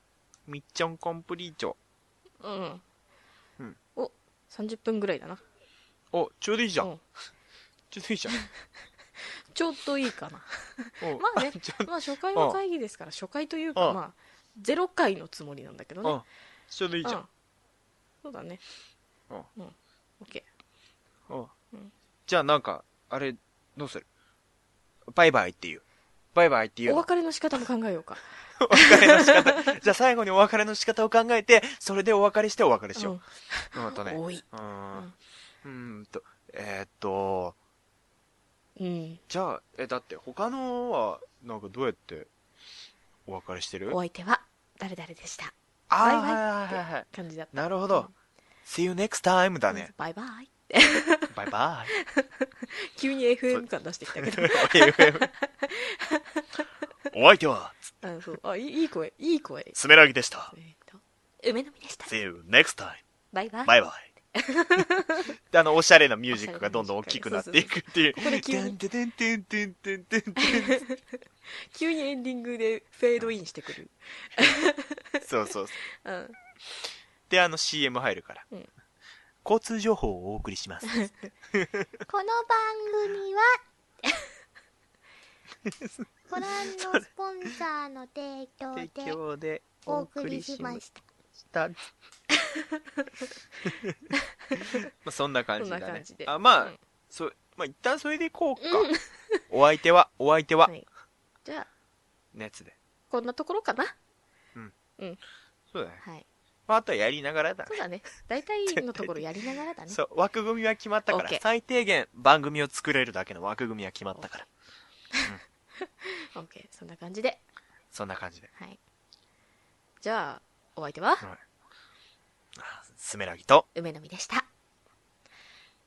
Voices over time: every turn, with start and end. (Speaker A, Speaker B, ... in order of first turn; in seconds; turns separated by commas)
Speaker A: 0.5-1.8, Speaker B: 2.4-2.8, Speaker B: 3.9-5.4, Speaker A: 6.1-6.9, Speaker A: 7.9-8.3, Speaker B: 9.5-16.2, Speaker A: 11.0-12.6, Speaker A: 16.0-17.2, Speaker B: 18.2-18.6, Speaker B: 19.6-20.5, Speaker A: 22.3-24.1, Speaker A: 25.1-25.8, Speaker A: 26.3-27.1, Speaker B: 26.9-29.8, Speaker A: 28.6-33.2, Speaker B: 33.0-35.1, Speaker A: 33.7-35.1, Speaker A: 35.6-37.6, Speaker B: 38.8-39.2, Speaker A: 39.3-42.3, Speaker A: 43.2-44.0, Speaker B: 43.9-48.1, Speaker A: 45.9-48.1, Speaker A: 48.6-49.9, Speaker B: 49.7-51.3, Speaker A: 51.3-51.9, Speaker B: 52.0-56.7, Speaker A: 53.5-55.3, Speaker A: 57.1-58.0, Speaker B: 58.0-59.8, Speaker A: 59.7-60.5, Speaker B: 60.5-62.1, Speaker A: 62.0-63.0, Speaker B: 63.3-63.8, Speaker A: 63.6-64.1, Speaker B: 64.3-65.3, Speaker A: 65.5-70.8, Speaker B: 66.3-68.8, Speaker B: 70.4-75.2, Speaker A: 75.2-75.8, Speaker B: 75.9-76.4, Speaker A: 77.3-78.5, Speaker A: 79.4-81.9, Speaker B: 80.8-81.3, Speaker C: 82.1-83.6, Speaker A: 85.6-87.5, Speaker C: 86.3-89.2, Speaker A: 88.7-90.8, Speaker C: 89.8-90.9, Speaker A: 91.5-91.8, Speaker B: 94.5-94.8, Speaker A: 94.7-98.9, Speaker B: 95.6-96.8, Speaker B: 98.6-99.4, Speaker A: 99.5-100.7, Speaker A: 102.3-102.8, Speaker B: 103.1-103.9, Speaker A: 105.7-106.0, Speaker A: 106.7-107.8, Speaker B: 107.7-110.0, Speaker A: 108.7-109.2, Speaker A: 109.9-114.5, Speaker B: 111.1-111.4, Speaker B: 115.8-117.4, Speaker A: 117.9-118.5, Speaker B: 120.0-121.2, Speaker A: 122.5-123.7, Speaker B: 123.7-124.5